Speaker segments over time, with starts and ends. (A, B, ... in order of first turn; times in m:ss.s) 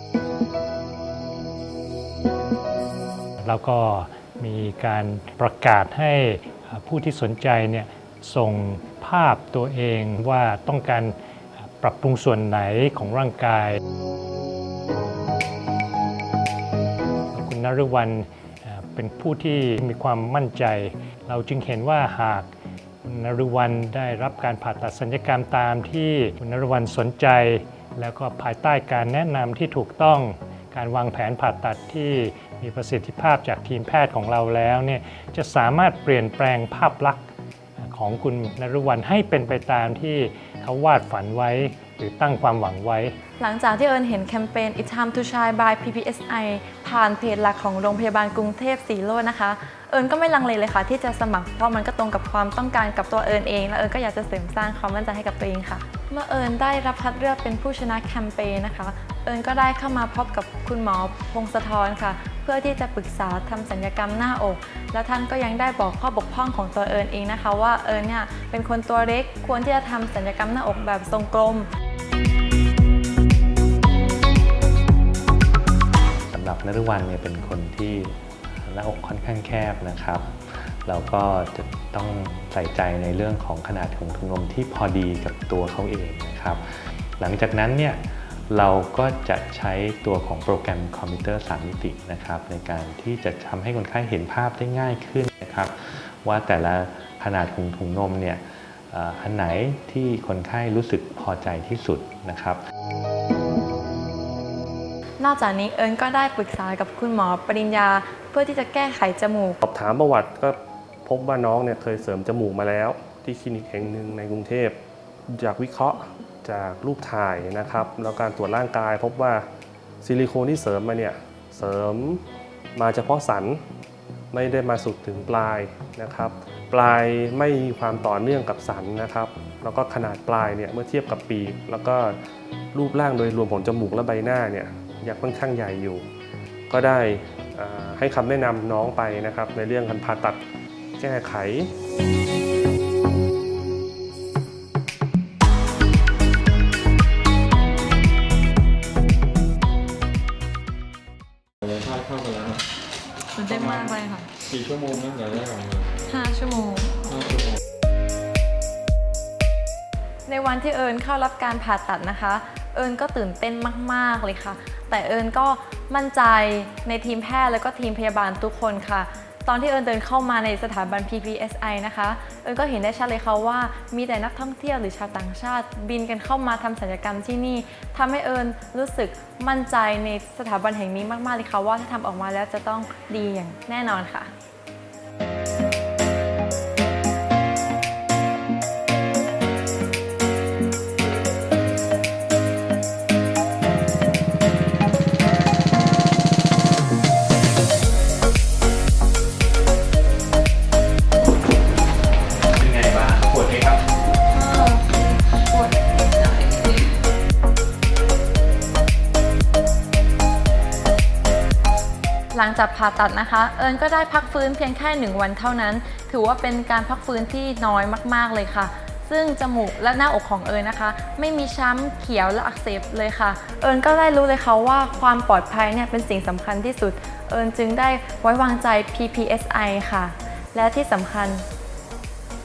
0:03.4-0:11.1 A
0:11.8-0:13.8 A
0:17.3-0:22.5 A
0:23.0-0:37.2 A
0:37.8-0:43.2 A
0:43.4-1:11.7 B
1:16.3-1:42.6 C
1:45.2-1:49.6 B
1:49.6-1:54.8 D
1:55.3-1:59.4 D
2:00.0-2:02.2 D
2:02.7-2:03.6 D
2:04.3-2:12.2 D
2:12.7-2:16.0 D
2:16.7-2:20.4 D
2:21.0-2:21.7 D
2:31.6-2:32.6 E
2:33.3-2:34.3 B
2:34.5-2:35.9 E
2:36.0-2:37.1 B
2:37.2-2:37.6 E
2:40.3-3:04.3 B
3:22.5-3:23.8 C
3:24.3-3:26.9 B
3:32.3-3:51.4 B